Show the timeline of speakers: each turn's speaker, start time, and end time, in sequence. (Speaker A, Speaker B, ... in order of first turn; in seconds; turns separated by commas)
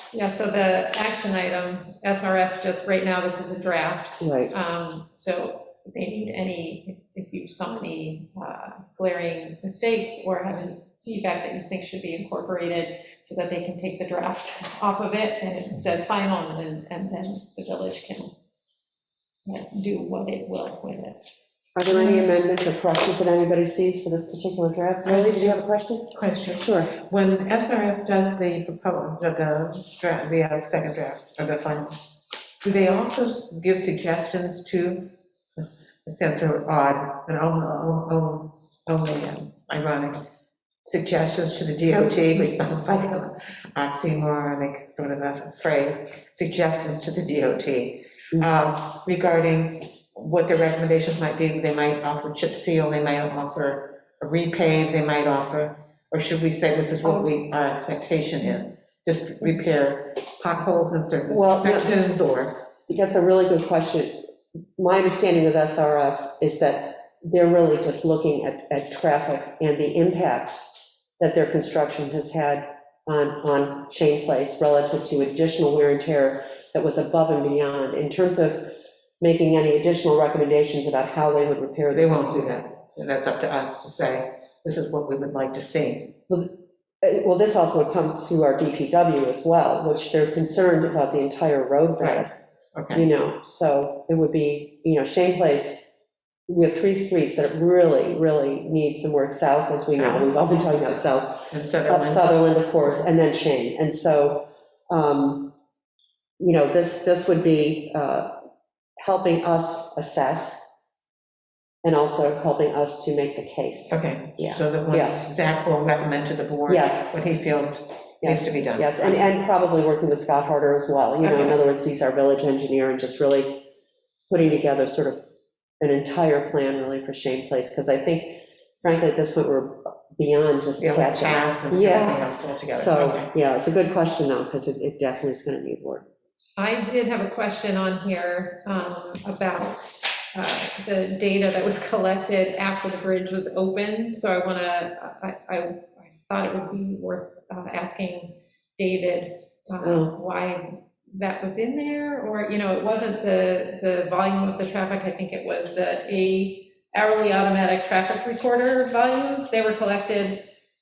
Speaker A: 0.1-18.3, Speaker B: 4.2-4.5, Speaker A: 19.4-21.2, Speaker B: 21.8-27.0, Speaker A: 21.9-22.2, Speaker C: 25.1-25.6, Speaker C: 26.1-31.9, Speaker C: 32.6-40.2, Speaker C: 40.9-62.6, Speaker B: 41.9-42.7, Speaker B: 61.3-62.0, Speaker B: 62.9-64.3, Speaker B: 64.8-70.6, Speaker B: 71.2-82.7, Speaker C: 81.9-86.2, Speaker B: 86.3-92.3, Speaker C: 92.0-93.1, Speaker B: 92.9-95.9, Speaker B: 96.5-105.5, Speaker C: 100.0-100.4, Speaker C: 101.5-102.3, Speaker B: 106.4-108.5, Speaker B: 109.0-110.8, Speaker B: 111.8-115.2, Speaker C: 113.9-119.2, Speaker B: 116.7-117.2, Speaker B: 118.2-123.6, Speaker C: 121.2-121.6, Speaker B: 124.3-125.2, Speaker B: 125.8-136.1, Speaker C: 130.8-133.3, Speaker A: 136.6-160.5, Speaker B: 149.8-150.1